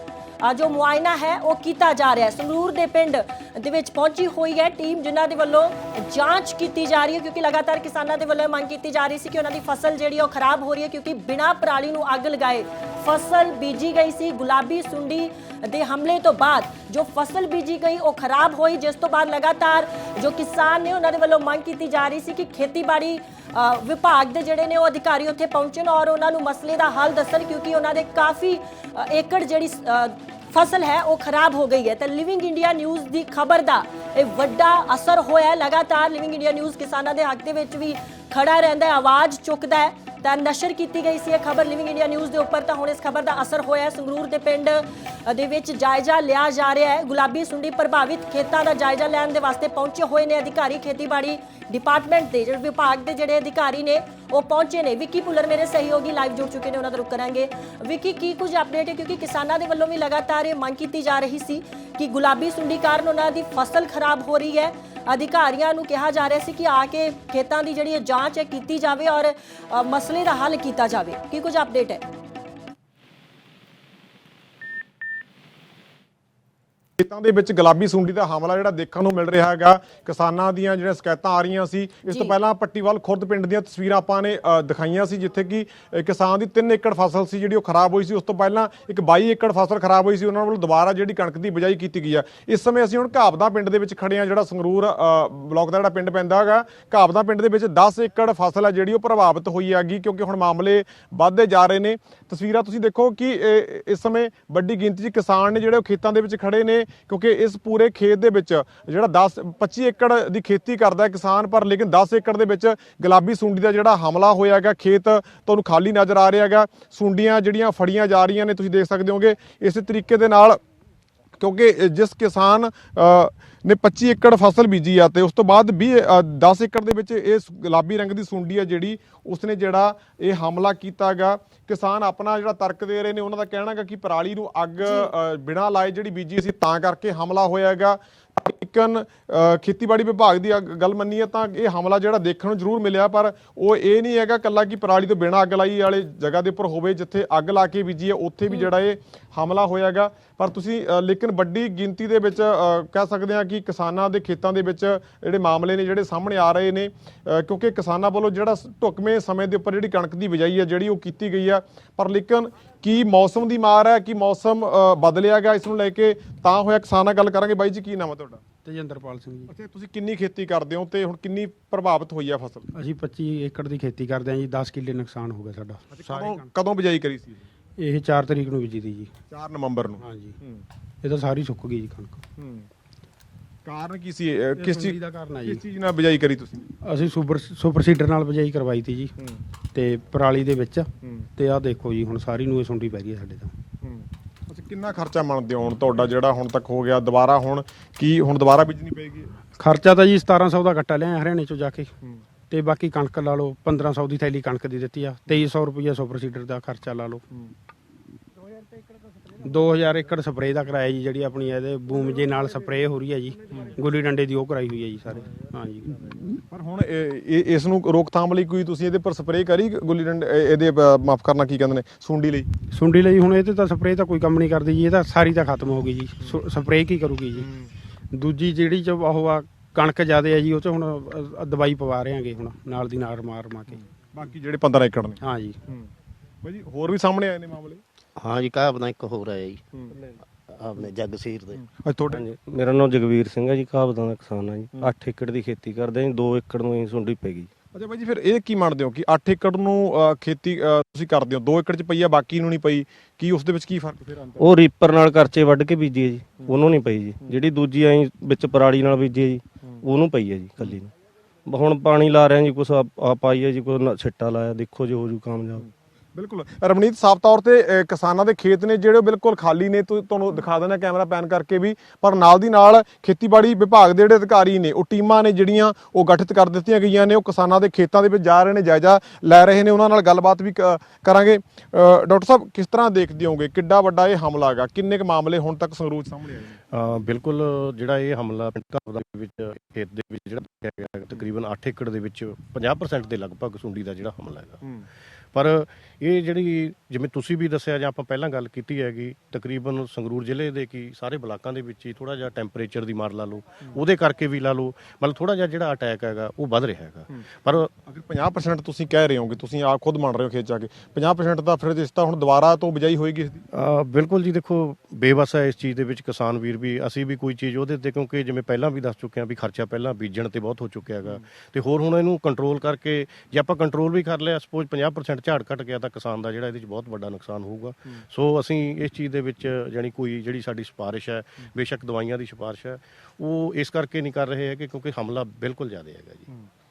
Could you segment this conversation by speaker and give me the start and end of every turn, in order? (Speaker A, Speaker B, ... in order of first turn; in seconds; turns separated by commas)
Speaker A: 0.4-72.0, Speaker B: 77.0-120.6, Speaker A: 82.1-82.3, Speaker B: 121.3-168.4, Speaker C: 168.6-169.5, Speaker B: 169.5-172.6, Speaker C: 172.7-176.4, Speaker B: 175.9-177.4, Speaker C: 177.8-179.1, Speaker B: 179.3-180.6, Speaker C: 180.0-180.4, Speaker C: 181.0-182.2, Speaker B: 182.4-182.7, Speaker B: 183.6-186.7, Speaker C: 184.6-185.6, Speaker C: 186.8-189.1, Speaker C: 189.7-193.5, Speaker B: 193.8-199.3, Speaker C: 199.6-201.9, Speaker C: 202.5-207.2, Speaker C: 209.4-216.4, Speaker B: 216.5-222.5, Speaker C: 222.7-227.5, Speaker B: 227.4-227.7, Speaker C: 228.1-233.8, Speaker B: 234.1-235.9, Speaker C: 235.2-235.6, Speaker B: 236.4-237.8, Speaker D: 238.2-239.6, Speaker D: 240.6-241.4, Speaker B: 241.5-242.2, Speaker E: 242.1-247.5, Speaker B: 247.7-254.5, Speaker E: 254.4-260.9, Speaker E: 261.5-265.6, Speaker B: 266.1-286.6, Speaker F: 286.7-294.6, Speaker F: 295.3-307.7, Speaker B: 307.9-313.4, Speaker F: 313.5-336.3